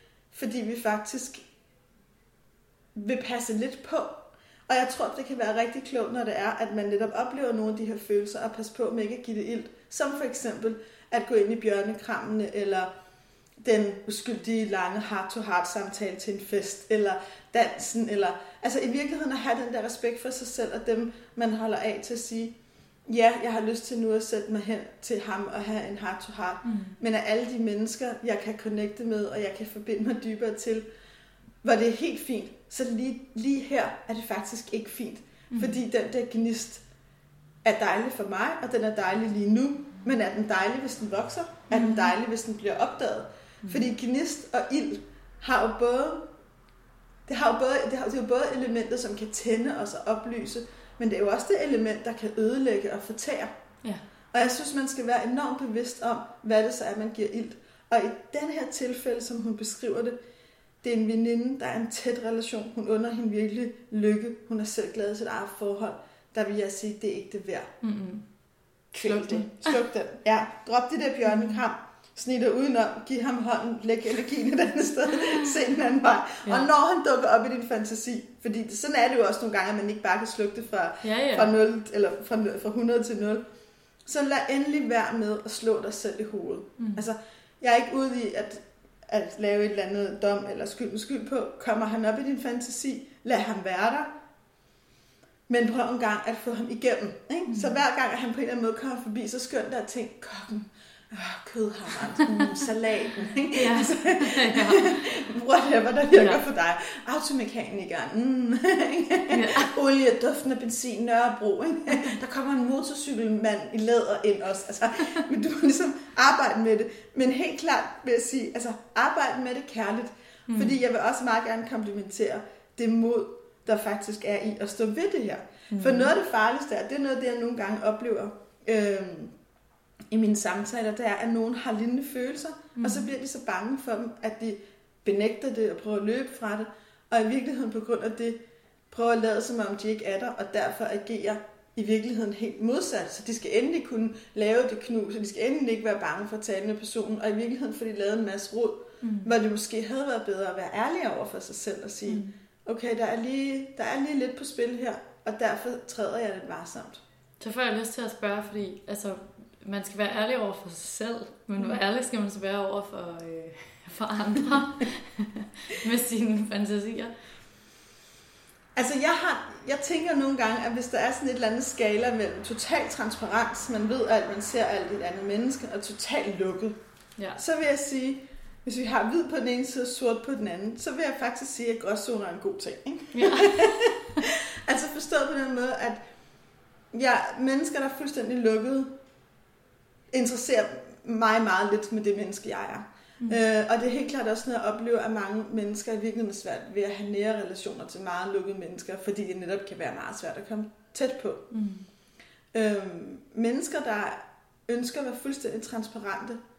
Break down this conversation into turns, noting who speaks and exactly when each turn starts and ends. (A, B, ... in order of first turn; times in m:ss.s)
0:00.3-0:01.4 A
0:03.0-0:12.9 A
0:13.6-0:22.5 A
0:23.1-0:30.8 A
0:26.6-0:27.0 B
0:31.6-0:36.8 A
0:37.6-0:46.3 A
0:41.7-0:42.1 B
0:47.3-0:53.5 A
0:54.3-1:00.2 A
1:00.8-1:07.7 A
1:07.8-1:08.2 B
1:08.9-1:23.4 A
1:09.0-1:09.8 B
1:21.0-1:21.5 B
1:24.0-1:34.1 A
1:35.5-2:09.3 A
1:37.5-1:37.8 B
1:43.5-1:45.2 B
1:46.1-1:46.4 B
1:49.3-1:49.7 B
2:00.5-2:00.8 B
2:05.7-2:06.1 B
2:10.1-2:18.4 A
2:12.8-2:13.1 B
2:18.9-2:37.0 A
2:29.0-2:29.3 B
2:32.1-2:32.3 B
2:37.4-2:47.1 B
2:48.8-2:56.8 A
2:57.4-3:06.0 A
3:03.1-3:03.8 B
3:06.9-3:08.9 A
3:10.1-3:21.5 A
3:21.5-3:21.9 B
3:22.5-3:26.4 A